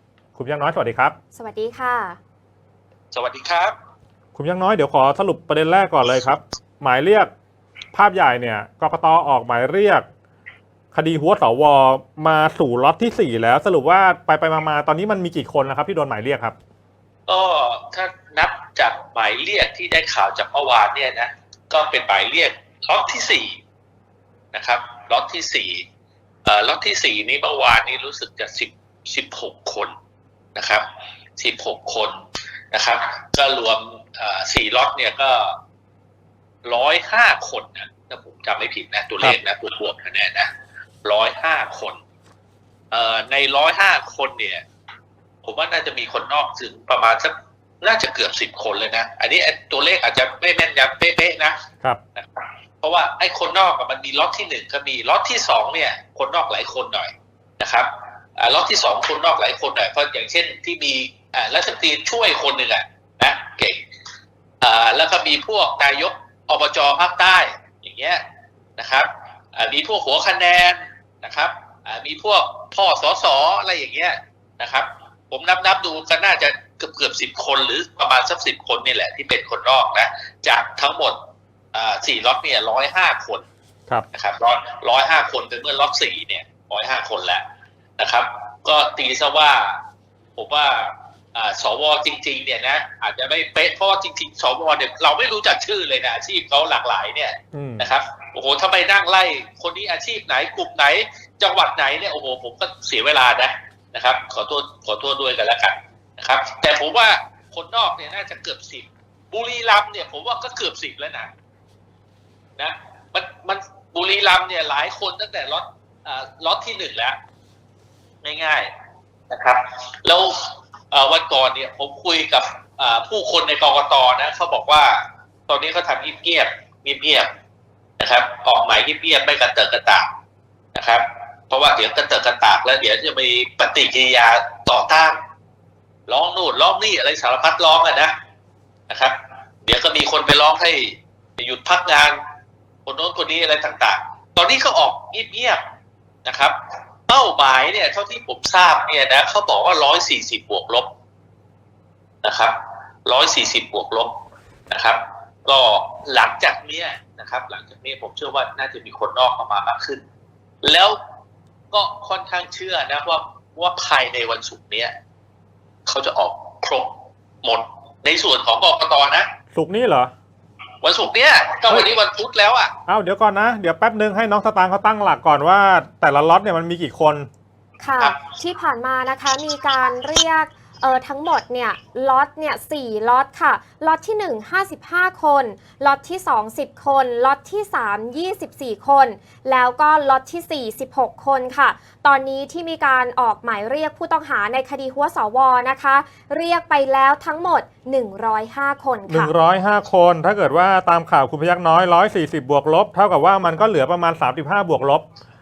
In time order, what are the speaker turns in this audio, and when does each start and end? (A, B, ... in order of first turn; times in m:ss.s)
0:00.4-0:01.2 A
0:01.3-0:02.2 B
0:03.1-0:03.8 C
0:04.4-0:07.3 A
0:07.9-0:10.1 A
0:10.9-0:16.6 A
0:17.3-0:23.6 C
0:24.5-0:25.8 C
0:26.4-0:29.9 C
0:30.6-0:30.8 C
0:31.4-0:32.2 C
0:32.7-0:35.6 C
0:36.6-0:40.5 C
0:41.0-0:42.0 C
0:42.9-0:44.6 C
0:45.4-0:51.6 C
0:52.2-1:03.8 C
1:04.6-1:08.2 C
1:08.8-1:21.2 C
1:21.7-1:23.5 C
1:24.1-1:27.4 C
1:28.0-1:29.8 C
1:30.4-1:51.3 C
1:37.5-1:37.9 A
1:52.6-1:57.2 C
1:58.2-1:58.7 C
1:59.3-2:07.3 C
2:08.0-2:10.1 C
2:10.7-2:15.2 C
2:16.1-2:18.1 C
2:18.9-2:22.2 C
2:22.9-2:25.6 C
2:26.2-2:26.6 C
2:27.1-2:30.9 C
2:32.2-2:34.2 C
2:34.7-2:40.0 C
2:40.6-2:41.0 C
2:41.7-2:45.0 C
2:45.9-2:46.9 C
2:47.4-2:49.3 C
2:49.5-2:50.1 A
2:50.8-2:52.7 C
2:52.9-2:57.3 A
2:57.8-3:19.3 B
3:19.1-3:25.0 A